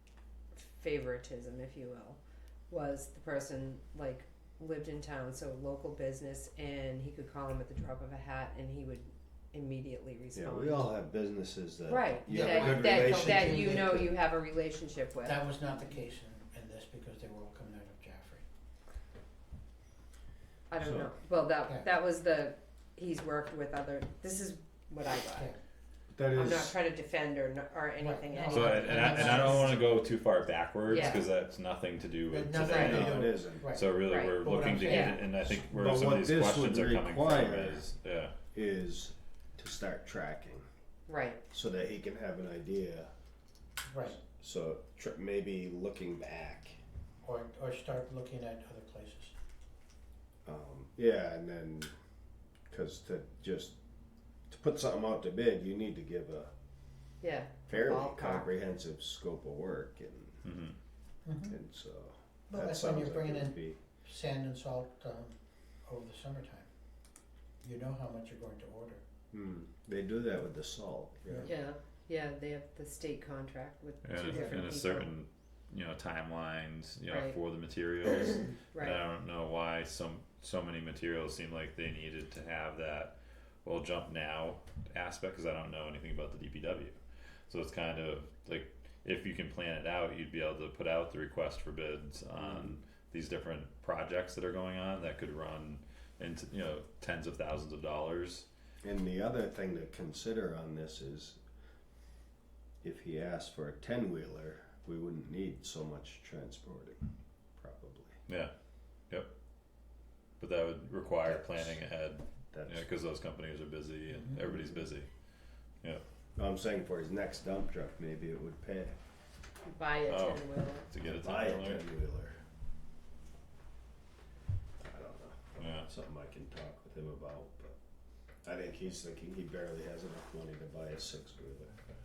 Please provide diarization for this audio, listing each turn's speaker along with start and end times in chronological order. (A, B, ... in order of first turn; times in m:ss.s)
0:00.5-0:11.0 A
0:10.3-0:14.1 B
0:11.9-0:15.8 A
0:12.3-0:14.1 C
0:15.2-0:18.4 C
0:20.7-0:25.5 A
0:20.8-0:21.1 D
0:25.3-0:25.6 C
0:26.1-0:26.8 B
0:26.3-0:29.7 A
0:28.0-0:30.0 C
0:28.5-0:33.2 D
0:30.9-0:31.3 A
0:30.9-0:31.2 C
0:32.3-0:35.7 C
0:32.6-0:33.0 A
0:32.6-0:33.7 B
0:33.7-0:38.3 D
0:34.0-0:35.3 A
0:35.7-0:37.8 B
0:38.5-0:40.6 B
0:41.1-0:41.4 A
0:41.5-0:43.1 B
0:43.9-0:44.2 C
0:44.1-0:46.8 B
0:47.2-0:49.4 C
0:50.4-0:51.9 B
0:52.7-0:53.8 B
0:54.5-0:56.5 B
0:57.2-0:58.5 A
0:57.7-1:00.4 B
1:00.4-1:00.8 D
1:01.2-1:01.6 C
1:01.5-1:03.8 B
1:02.5-1:06.7 C
1:07.6-1:09.0 C
1:09.3-1:11.5 B
1:11.3-1:11.5 C
1:11.4-1:15.1 A
1:14.0-1:27.0 D
1:14.2-1:14.6 C
1:17.1-1:17.4 A
1:18.1-1:19.0 A
1:27.5-1:38.5 D
1:32.4-1:32.8 B
1:38.8-1:41.4 B
1:42.8-1:48.2 B
1:48.3-1:48.5 D
1:50.4-1:55.1 D
1:51.3-1:51.8 B
1:52.5-1:52.8 B
1:54.1-1:54.4 C
1:56.4-1:59.0 B
1:59.6-2:00.9 A
2:00.1-2:01.8 D
2:01.0-2:02.4 B
2:04.8-2:07.8 B
2:05.6-2:05.9 D
2:08.4-2:11.8 B